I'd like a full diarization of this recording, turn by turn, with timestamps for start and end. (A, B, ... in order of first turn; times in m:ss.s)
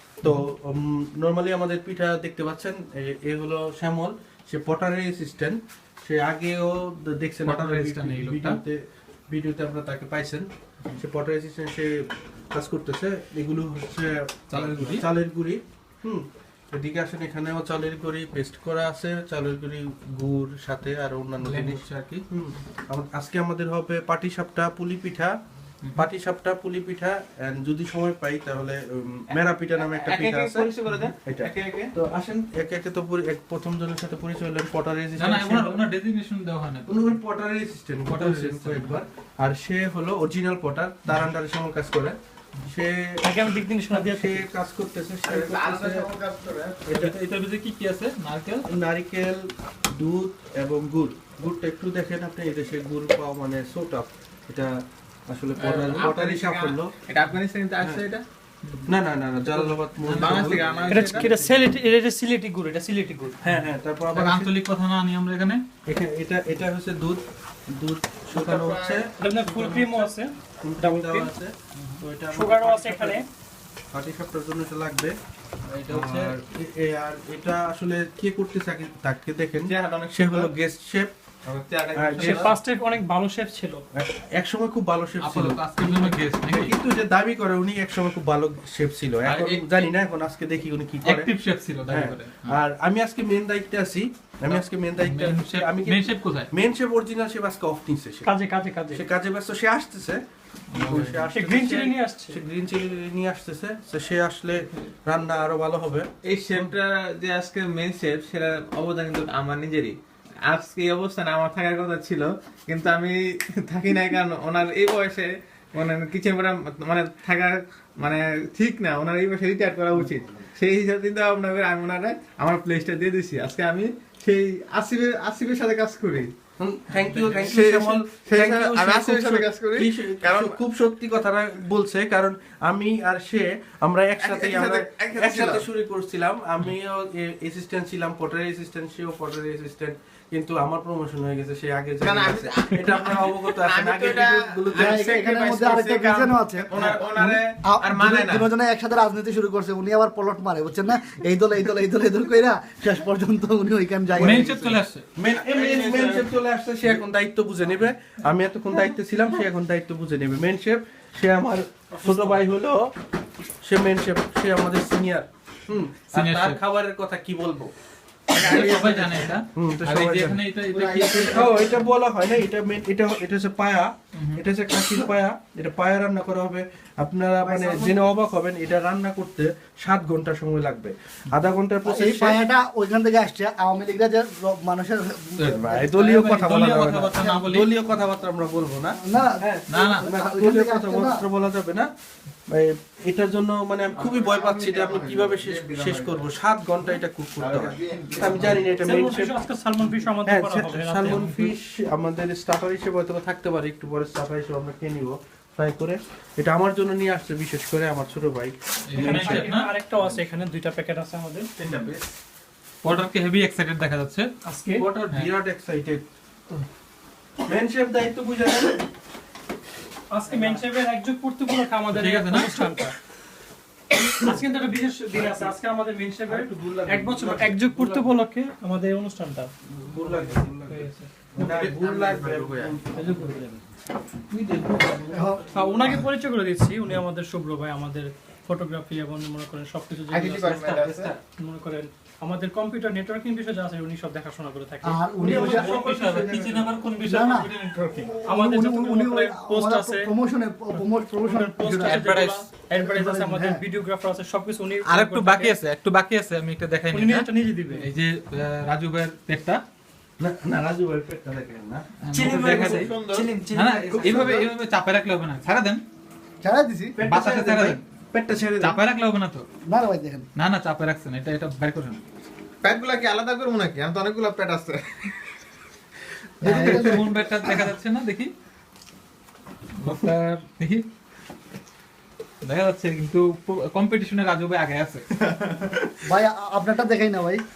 0:00.2-0:25.3 A
0:07.4-0:08.6 B
0:14.5-0:15.1 B
0:21.4-0:22.2 B
0:26.0-0:35.8 A
0:29.9-0:31.9 C
0:35.2-0:37.1 B
0:36.9-0:43.2 A
0:38.1-0:39.0 B
0:43.2-0:44.5 D
0:43.9-0:46.1 A
0:45.3-0:46.9 C
0:46.9-0:47.2 A
0:46.9-0:48.7 B
0:48.7-0:54.7 A
0:55.3-0:56.9 A
0:55.8-0:58.2 C
0:58.6-0:58.9 B
0:58.9-1:01.6 A
0:59.5-1:00.9 B
1:00.2-1:01.3 C
1:00.9-1:03.4 D
1:03.4-1:04.5 A
1:04.1-1:05.6 B
1:05.9-1:10.0 A
1:08.3-1:09.1 C
1:09.2-1:11.3 D
1:10.6-1:13.2 A
1:12.3-1:13.3 D
1:13.9-1:15.2 A
1:15.8-1:16.3 B
1:15.9-1:21.1 A
1:19.7-1:20.5 C
1:21.5-1:22.4 C
1:22.0-1:22.5 A
1:22.2-1:23.8 D
1:23.9-1:31.3 A
1:25.2-1:26.8 B
1:29.2-1:29.9 B
1:31.0-1:32.6 B
1:31.9-1:38.3 A
1:34.5-1:36.5 B
1:38.2-1:39.0 D
1:38.9-1:40.2 A
1:40.7-1:41.3 B
1:40.7-1:46.7 A
1:41.3-1:42.4 D
1:46.3-1:46.8 C
1:48.2-1:49.2 C
1:50.5-1:53.1 C
1:53.7-2:06.3 C
2:06.6-2:25.0 A
2:06.9-2:07.6 B
2:07.5-2:10.6 C
2:14.2-2:15.7 C
2:22.0-2:28.5 C
2:24.7-2:34.6 E
2:26.7-2:27.0 A
2:34.2-2:35.0 B
2:35.2-2:42.9 A
2:35.6-2:36.2 C
2:42.0-2:42.4 D
2:43.6-2:47.7 A
2:46.1-2:46.6 B
2:48.3-2:50.4 A
2:48.3-2:51.6 B
2:50.7-2:51.7 E
2:51.1-3:02.4 A
2:54.2-2:54.4 B
2:57.4-2:57.9 E
3:01.8-3:05.9 E
3:05.4-3:07.8 B
3:05.5-3:11.9 A
3:07.2-3:07.5 E
3:09.0-3:11.2 E
3:09.7-3:10.1 B
3:12.5-3:19.3 A
3:14.0-3:16.2 C
3:17.4-3:18.6 C
3:18.7-3:21.3 D
3:20.2-3:29.4 A
3:21.1-3:21.6 B
3:28.9-3:29.7 B
3:29.0-3:31.5 D
3:31.6-3:32.0 A
3:32.8-3:34.3 B
3:34.4-3:34.8 D
3:34.8-3:36.0 A
3:35.0-3:35.3 B
3:37.5-3:38.8 A
3:40.1-3:43.0 D
3:41.9-3:42.6 B
3:44.1-3:49.5 D
3:46.3-3:48.1 A
3:49.7-3:53.3 A
3:50.7-3:51.1 D
3:51.4-3:52.8 C
3:52.9-3:53.6 D
3:54.3-3:55.8 A
3:55.1-3:55.4 E
3:55.5-4:05.5 D
4:00.1-4:01.2 C
4:04.8-4:05.8 E
4:05.2-4:06.6 A
4:05.2-4:08.1 B
4:07.0-4:12.0 E
4:08.2-4:10.1 D
4:10.7-4:15.6 D
4:11.8-4:12.5 B
4:12.7-4:13.6 E
4:14.9-4:19.6 B
4:16.9-4:17.9 D
4:20.2-4:22.9 A
4:22.0-4:25.8 B
4:22.2-4:24.5 C
4:24.0-4:24.3 A
4:26.4-4:27.0 E
4:27.0-4:28.8 A
4:27.0-4:27.8 B
4:28.6-4:29.4 B
4:29.7-4:30.3 E
4:30.4-4:32.0 B
4:32.6-4:35.2 C
4:36.4-4:37.1 E
4:36.4-4:38.3 B
4:39.8-4:40.8 B
4:42.4-4:45.0 B
4:45.4-4:45.7 C
4:46.0-4:47.4 E